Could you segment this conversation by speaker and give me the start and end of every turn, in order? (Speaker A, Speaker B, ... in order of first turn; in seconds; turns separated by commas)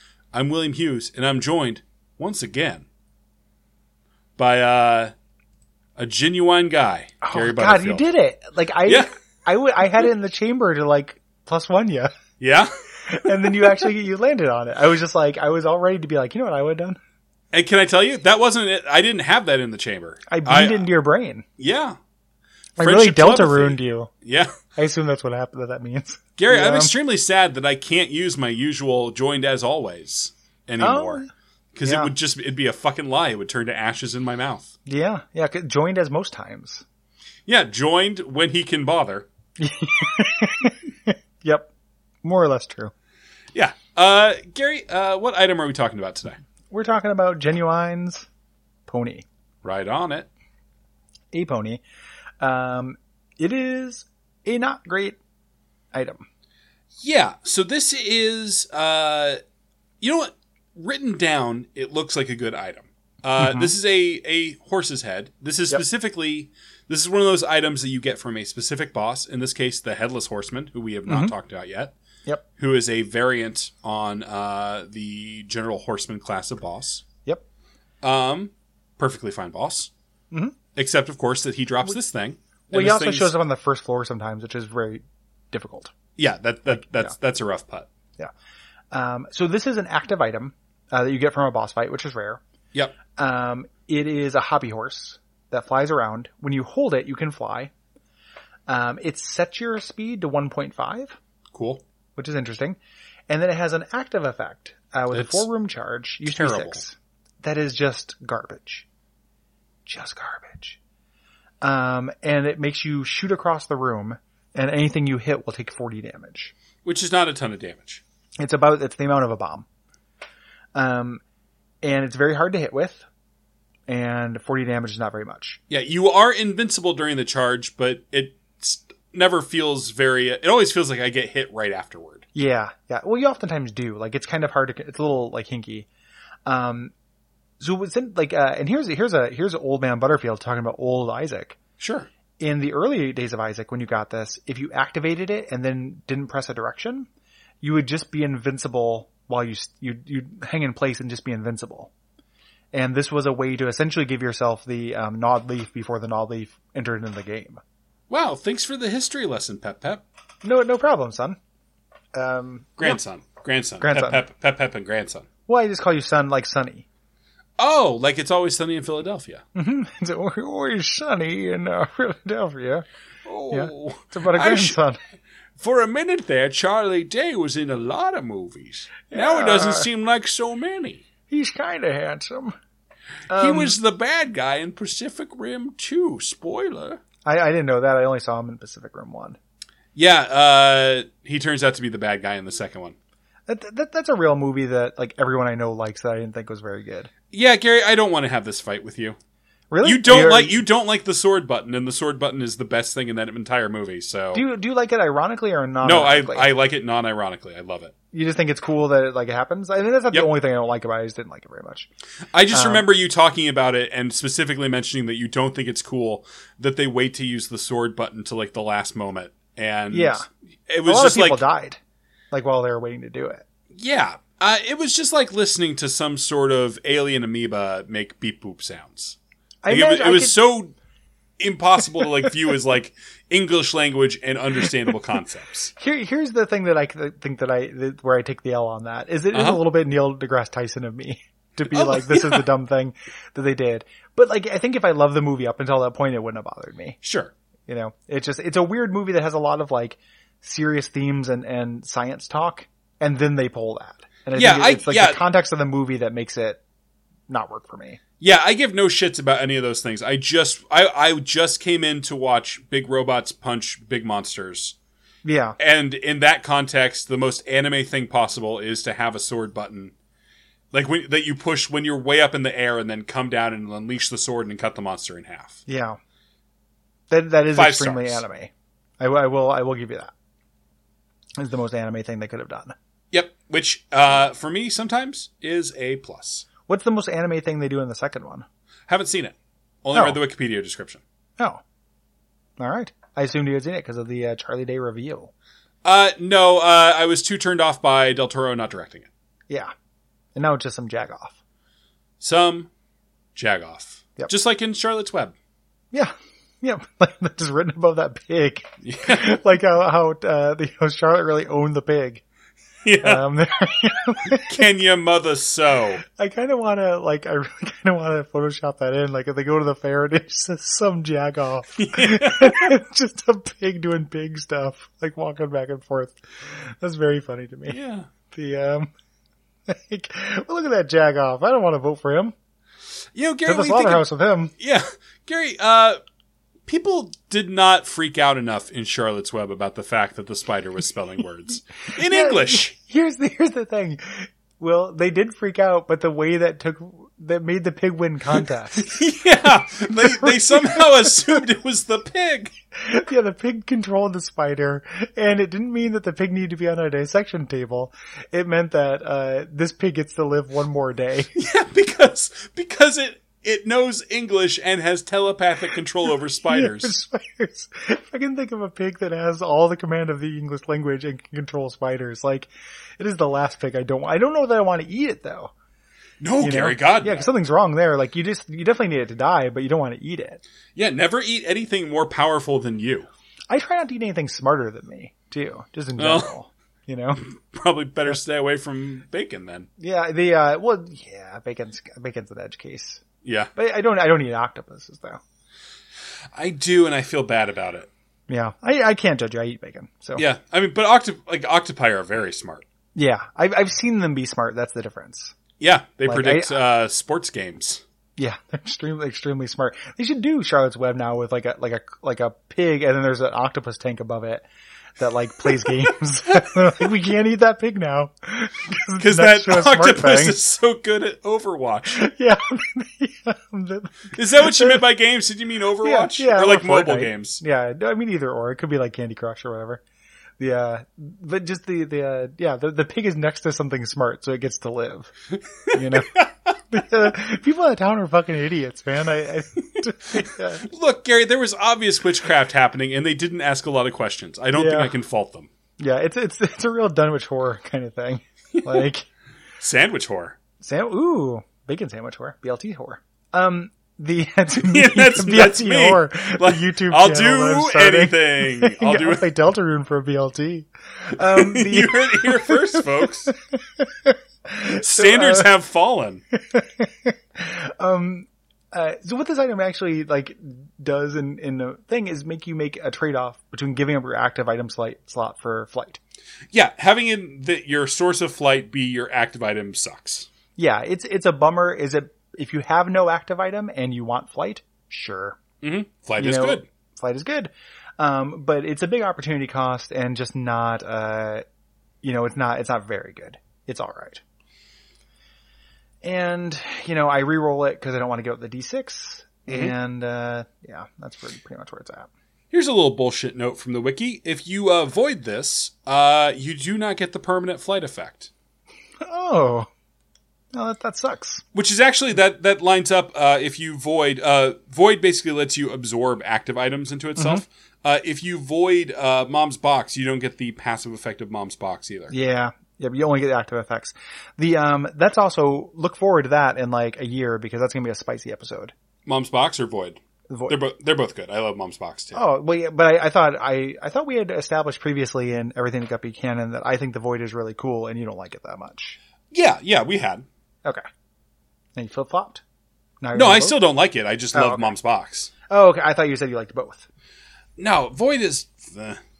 Speaker A: 0.3-2.9, Speaker A: 4.4-5.1, Speaker A: 6.0-8.0, Speaker B: 7.2-12.1, Speaker A: 12.4-12.7, Speaker B: 13.1-17.0, Speaker A: 13.3-13.8, Speaker A: 17.5-20.9, Speaker B: 20.3-21.4, Speaker A: 21.6-22.0, Speaker A: 22.8-24.5, Speaker B: 22.8-24.1, Speaker B: 24.8-26.9, Speaker A: 26.4-34.7, Speaker B: 30.8-31.3, Speaker B: 31.9-32.1, Speaker B: 34.9-36.9, Speaker A: 37.5-39.3, Speaker B: 39.6-41.7, Speaker B: 42.2-42.9, Speaker A: 43.5-46.4, Speaker B: 46.7-48.3, Speaker B: 48.9-49.3, Speaker A: 49.6-50.3, Speaker B: 51.3-51.8, Speaker B: 52.4-55.2, Speaker B: 55.9-56.3, Speaker A: 57.0-59.4, Speaker A: 60.0-71.9, Speaker B: 63.4-63.7, Speaker B: 71.1-71.3, Speaker A: 72.6-77.0, Speaker A: 78.0-79.9, Speaker A: 80.8-83.3, Speaker B: 82.7-85.9, Speaker A: 86.2-87.9, Speaker B: 86.9-87.1, Speaker B: 88.9-92.4, Speaker B: 93.2-97.7, Speaker B: 98.7-101.2, Speaker A: 101.5-101.8, Speaker B: 102.2-102.8, Speaker B: 103.3-108.9, Speaker A: 105.1-105.5, Speaker A: 106.3-106.8, Speaker B: 109.9-110.8, Speaker B: 111.6-116.5, Speaker A: 116.8-118.0, Speaker B: 118.4-119.7, Speaker B: 120.8-121.2, Speaker B: 121.8-123.1, Speaker B: 123.9-125.6, Speaker A: 125.7-132.3, Speaker B: 132.3-135.9, Speaker B: 136.5-136.9, Speaker B: 137.6-141.6, Speaker A: 141.8-142.1, Speaker B: 142.4-147.1, Speaker B: 147.6-151.9, Speaker B: 152.7-157.6, Speaker A: 158.1-160.0, Speaker B: 160.4-161.4, Speaker B: 162.2-163.0, Speaker A: 162.8-165.3, Speaker B: 163.8-164.2, Speaker B: 165.5-166.9, Speaker A: 167.6-169.4, Speaker B: 169.6-172.9, Speaker A: 173.3-174.8, Speaker B: 173.5-175.0, Speaker A: 175.6-181.1, Speaker B: 179.1-179.9, Speaker B: 181.3-182.6, Speaker B: 183.3-183.8, Speaker A: 183.3-187.0, Speaker B: 187.2-189.4, Speaker A: 189.9-193.0, Speaker B: 193.5-197.1, Speaker A: 197.3-199.2, Speaker B: 199.7-200.6, Speaker A: 199.8-204.4, Speaker B: 204.3-206.5, Speaker A: 205.8-207.9, Speaker B: 208.1-211.9, Speaker A: 212.3-221.4, Speaker B: 212.5-212.9, Speaker B: 219.9-220.3, Speaker B: 220.8-221.8, Speaker B: 222.3-223.4, Speaker A: 223.7-230.7, Speaker B: 229.6-230.4, Speaker A: 231.4-235.7, Speaker B: 235.8-247.0, Speaker A: 239.3-239.6, Speaker A: 241.7-242.4, Speaker A: 247.0-247.3, Speaker B: 247.7-256.6, Speaker A: 254.3-255.2, Speaker B: 257.3-258.0, Speaker A: 258.2-264.8, Speaker B: 265.2-265.6, Speaker A: 265.6-269.9, Speaker A: 270.7-275.6, Speaker B: 275.7-276.0, Speaker B: 277.1-280.1, Speaker A: 277.5-278.2, Speaker B: 281.4-282.8, Speaker A: 283.1-286.5, Speaker B: 286.7-288.5, Speaker A: 288.9-291.0, Speaker B: 292.6-295.3, Speaker A: 295.8-299.1, Speaker B: 300.4-301.4, Speaker A: 302.2-302.7, Speaker A: 303.4-305.4, Speaker B: 305.9-312.2, Speaker A: 308.8-309.3, Speaker A: 312.9-313.2, Speaker B: 313.0-314.5, Speaker A: 314.4-316.0, Speaker B: 316.1-327.8, Speaker A: 321.8-322.7, Speaker A: 327.7-328.1, Speaker B: 328.3-328.9, Speaker B: 329.7-332.4, Speaker A: 333.1-334.0, Speaker B: 333.5-334.5, Speaker A: 334.6-336.0, Speaker A: 336.7-342.7, Speaker B: 342.0-349.0, Speaker A: 348.8-352.5, Speaker B: 350.0-351.4, Speaker B: 352.8-361.3, Speaker A: 361.4-366.9, Speaker B: 366.4-375.5, Speaker A: 376.2-377.2, Speaker B: 376.4-380.4, Speaker A: 380.8-383.1, Speaker B: 383.5-387.2, Speaker A: 386.0-386.3, Speaker A: 387.2-389.7, Speaker B: 389.8-393.0, Speaker A: 393.2-393.5, Speaker B: 393.6-395.2, Speaker A: 396.4-397.9, Speaker B: 398.3-400.2, Speaker A: 400.2-402.6, Speaker B: 402.9-405.4, Speaker A: 405.6-407.8, Speaker B: 406.1-406.6, Speaker B: 408.2-420.4, Speaker A: 419.0-422.1, Speaker B: 422.0-424.9, Speaker A: 424.1-427.4, Speaker B: 425.8-429.8, Speaker B: 430.4-435.1, Speaker B: 435.7-436.1, Speaker B: 436.7-440.6, Speaker A: 440.2-445.5, Speaker B: 444.5-444.9, Speaker B: 445.8-449.1, Speaker A: 448.6-448.9, Speaker A: 449.6-450.4, Speaker B: 450.6-465.5, Speaker A: 454.6-459.3, Speaker A: 461.2-463.3, Speaker A: 464.7-466.2, Speaker B: 466.4-476.0, Speaker A: 476.5-480.3, Speaker B: 480.6-485.4, Speaker A: 485.6-486.7, Speaker B: 486.2-491.4, Speaker B: 492.0-494.2, Speaker B: 496.0-502.1, Speaker A: 499.5-499.7, Speaker A: 502.5-508.3, Speaker B: 509.0-509.7, Speaker B: 510.5-511.4, Speaker A: 511.5-522.1, Speaker B: 517.2-517.4, Speaker B: 522.1-528.7, Speaker A: 529.1-532.2, Speaker B: 530.3-530.6, Speaker B: 532.1-539.0, Speaker A: 539.3-540.3, Speaker B: 541.8-542.4, Speaker B: 543.0-543.6, Speaker A: 543.1-545.3, Speaker B: 544.3-544.8, Speaker B: 545.5-546.9, Speaker A: 547.6-549.0